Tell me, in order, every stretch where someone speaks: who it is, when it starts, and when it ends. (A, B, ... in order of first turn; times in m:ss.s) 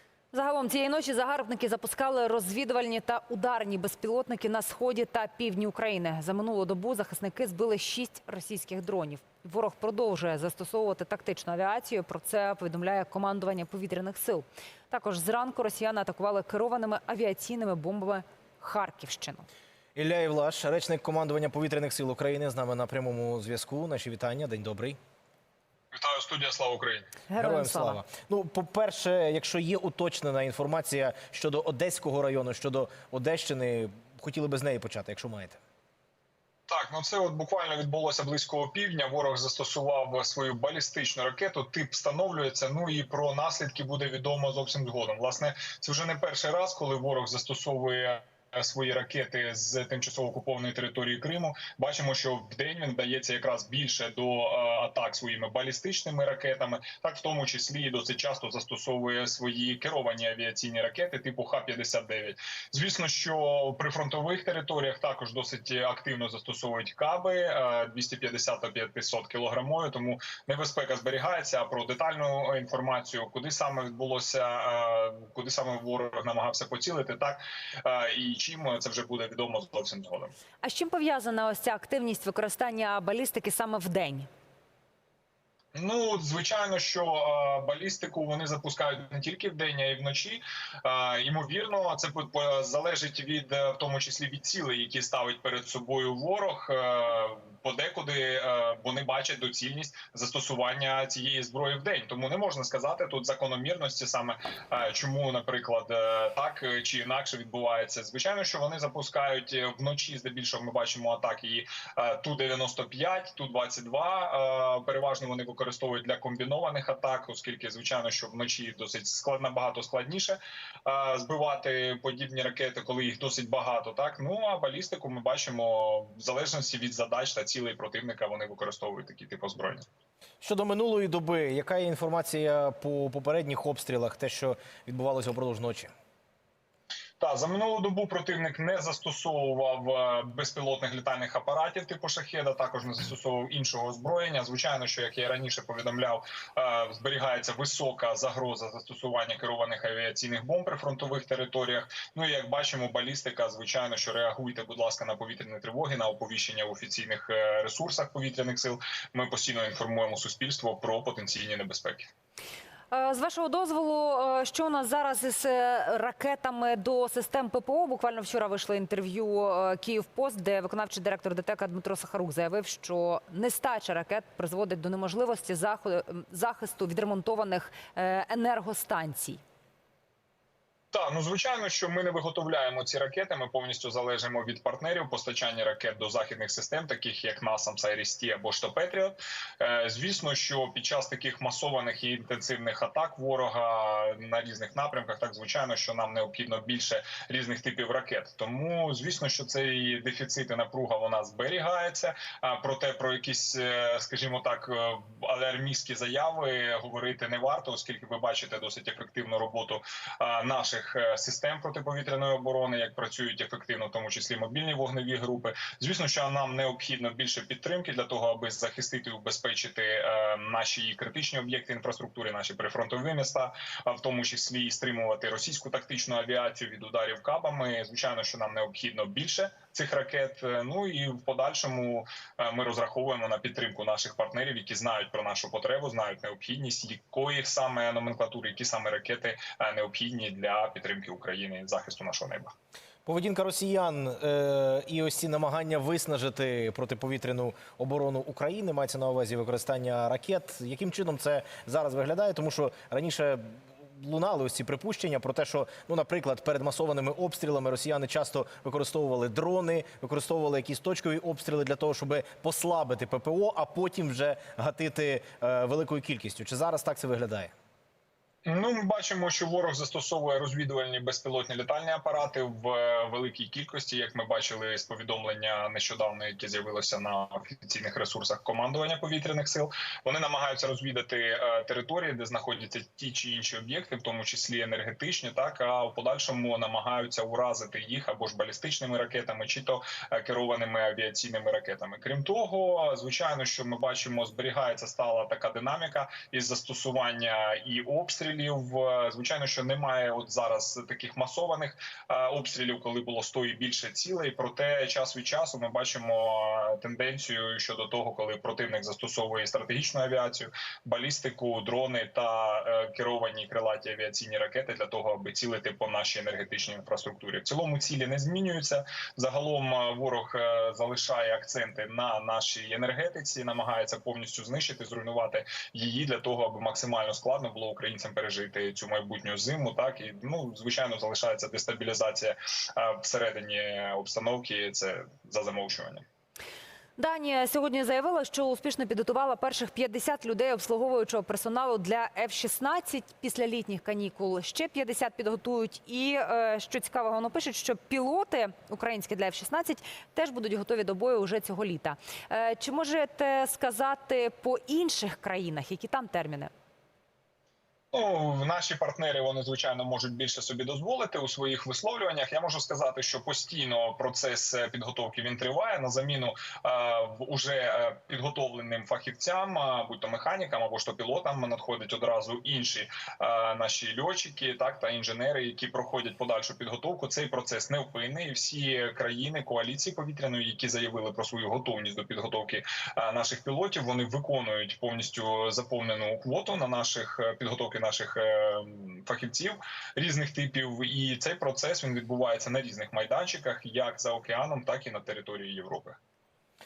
0:00.3-0:19.4 A
0:20.0-0:25.0 B
0:25.9-0:27.1 C
0:27.3-0:28.0 A
0:27.4-0:35.6 B
0:36.7-1:20.3 C
1:20.6-1:24.3 A
1:25.7-2:09.8 C
2:10.4-2:15.9 B
2:17.2-2:42.1 C
2:42.9-2:59.4 A
3:00.9-4:02.5 C
4:03.0-4:27.5 B
4:28.4-5:36.0 C
5:37.0-5:56.5 A
5:57.9-6:36.0 C